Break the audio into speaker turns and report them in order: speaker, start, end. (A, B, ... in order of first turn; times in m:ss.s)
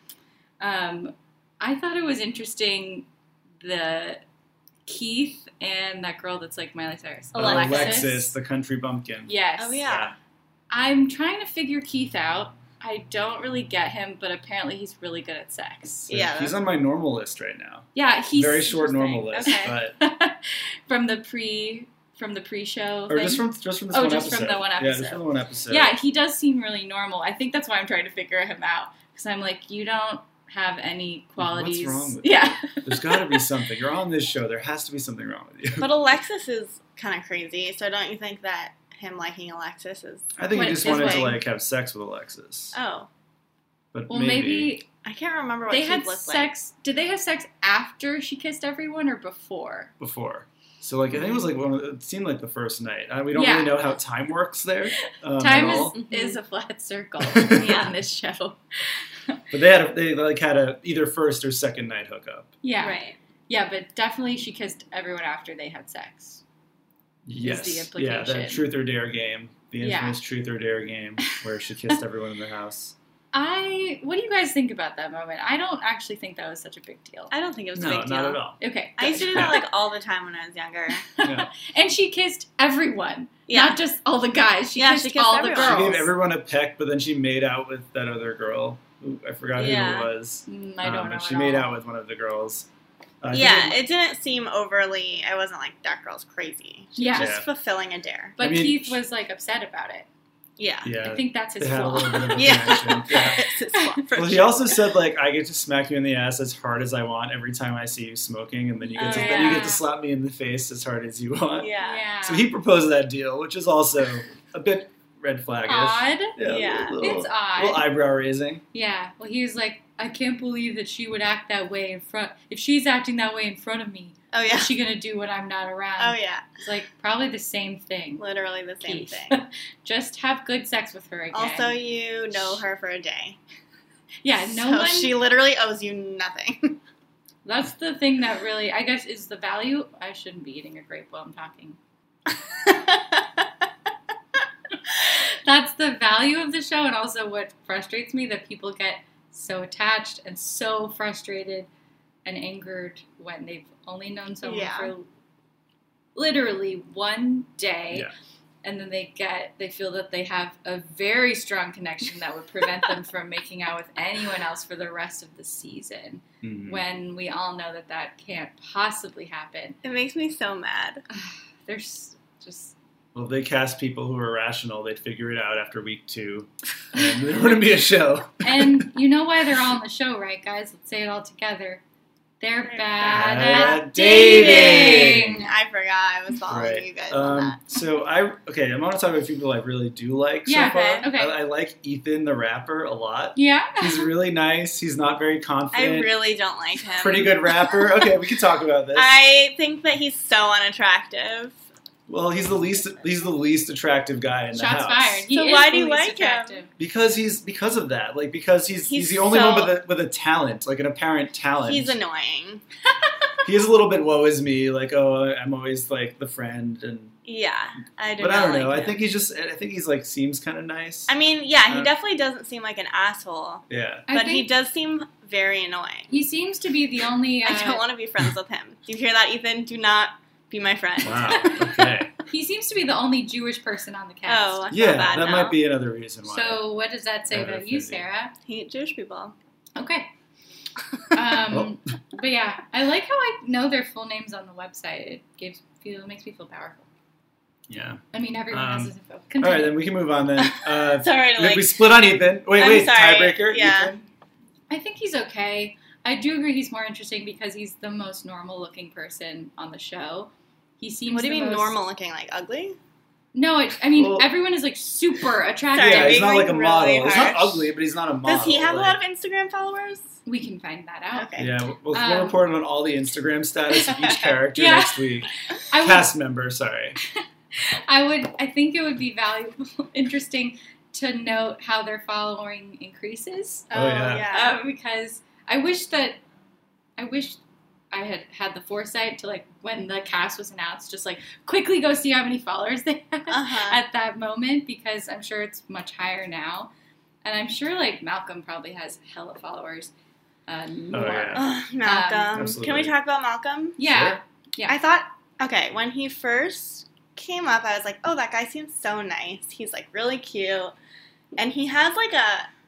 0:00.6-0:03.1 A
0:03.6-0:04.2 A
0:04.9-0:08.4 A
0:07.3-0:08.1 B
0:07.4-0:09.3 C
0:09.3-0:09.9 A
0:09.6-0:10.2 B
0:09.8-0:10.1 C
0:10.7-0:16.1 A
0:16.1-0:16.6 B
0:16.1-0:20.0 C
0:18.0-0:33.5 A
0:19.3-0:19.8 B
0:23.1-0:25.9 C
0:31.4-0:35.9 C
0:35.8-0:41.4 B
0:40.4-0:42.8 C
0:40.6-0:41.4 A
0:42.7-0:43.1 B
0:43.9-0:44.8 C
0:44.1-0:44.9 A
0:45.0-0:46.5 B
0:45.7-0:49.9 A
0:50.0-0:56.0 C
0:53.3-0:53.8 A
0:55.4-0:59.4 A
0:55.5-0:56.4 B
0:57.3-0:57.8 C
0:57.6-0:57.9 B
0:59.5-1:02.5 C
1:02.6-1:06.4 A
1:02.8-1:03.2 B
1:07.3-1:13.0 C
1:07.4-1:08.6 A
1:09.8-1:10.2 A
1:13.3-1:17.3 A
1:17.3-1:21.1 B
1:17.8-1:18.6 C
1:18.6-1:19.6 A
1:19.1-1:19.6 C
1:21.1-1:26.1 A
1:21.2-1:21.5 C
1:23.5-1:23.8 B
1:24.8-1:26.0 B
1:25.6-1:32.7 C
1:29.6-1:30.1 B
1:30.5-1:31.7 A
1:33.2-1:33.8 C
1:33.3-1:38.4 B
1:37.0-1:37.4 A
1:37.1-1:37.5 C
1:38.4-1:40.1 A
1:38.4-1:39.0 C
1:40.6-1:40.9 B
1:40.8-1:43.4 C
1:41.0-1:42.8 A
1:42.3-1:44.8 B
1:44.2-1:51.7 C
1:48.9-1:49.8 A
1:49.0-1:49.8 B
1:51.6-1:52.1 B
1:51.8-1:52.5 A
1:52.2-1:58.6 C
1:55.7-1:56.4 A
1:56.4-1:57.0 B
1:57.0-1:57.9 A
1:58.7-2:08.2 A
2:04.3-2:04.7 B
2:06.0-2:06.5 B
2:08.2-2:09.4 B
2:08.8-2:11.8 A
2:11.3-2:13.4 B
2:12.4-2:12.6 A
2:14.2-2:15.2 A
2:14.5-2:16.8 B
2:17.4-2:21.8 A
2:22.6-2:23.2 B
2:25.0-2:31.7 A
2:32.2-2:35.1 A
2:34.4-2:34.9 B
2:36.2-2:38.1 A
2:38.6-2:49.8 A
2:46.4-2:46.8 C
2:49.8-2:51.0 B
2:51.1-2:52.8 A
2:53.1-2:58.9 C
2:58.4-3:01.8 A
3:02.4-3:05.5 A
3:02.6-3:07.6 B
3:03.0-3:05.4 C
3:06.5-3:16.1 C
3:10.5-3:11.4 A
3:10.5-3:11.0 B
3:13.4-3:14.1 A
3:15.7-3:17.8 B
3:17.0-3:19.1 C
3:19.0-3:21.6 B
3:22.1-3:25.3 C
3:24.5-3:26.7 A
3:25.3-3:26.6 B
3:26.8-3:32.0 C
3:28.9-3:29.8 B
3:31.6-3:32.6 B
3:33.4-3:37.1 C
3:37.3-3:39.0 B
3:38.2-3:41.1 C
3:41.1-3:46.1 B
3:43.7-3:44.1 C
3:44.1-3:44.5 A
3:46.1-3:47.8 A
3:47.4-3:51.5 B
3:51.0-3:52.1 C
3:51.4-3:54.6 A
3:54.3-3:55.6 B
3:54.7-3:56.6 C
3:56.3-3:58.4 A
3:57.3-3:58.0 C
3:58.5-3:59.4 B
3:59.8-4:00.1 A
4:01.1-4:06.9 A
4:01.5-4:01.8 C
4:07.7-4:14.0 C
4:08.1-4:09.8 A
4:10.4-4:12.0 B
4:12.5-4:13.9 B
4:14.7-4:21.8 A
4:21.1-4:22.8 B
4:23.3-4:26.3 A
4:24.0-4:24.3 C
4:25.7-4:27.7 B
4:25.8-4:29.0 C
4:28.2-4:30.2 B
4:30.2-4:31.3 A
4:31.2-4:31.5 B
4:31.4-4:37.0 C
4:31.9-4:32.4 A
4:34.5-4:35.1 A
4:35.7-4:36.1 A
4:37.1-4:43.7 A
4:43.7-4:44.6 B
4:43.7-4:44.3 C
4:44.3-4:46.2 A
4:47.0-4:47.4 A
4:47.9-4:56.7 A
4:53.3-4:53.8 B
4:57.2-4:59.9 A
5:00.5-5:02.4 A
5:00.9-5:01.5 C
5:01.3-5:03.8 B
5:02.3-5:02.9 C
5:03.8-5:04.8 A
5:03.9-5:04.2 C
5:04.7-5:10.7 B
5:11.4-5:12.5 B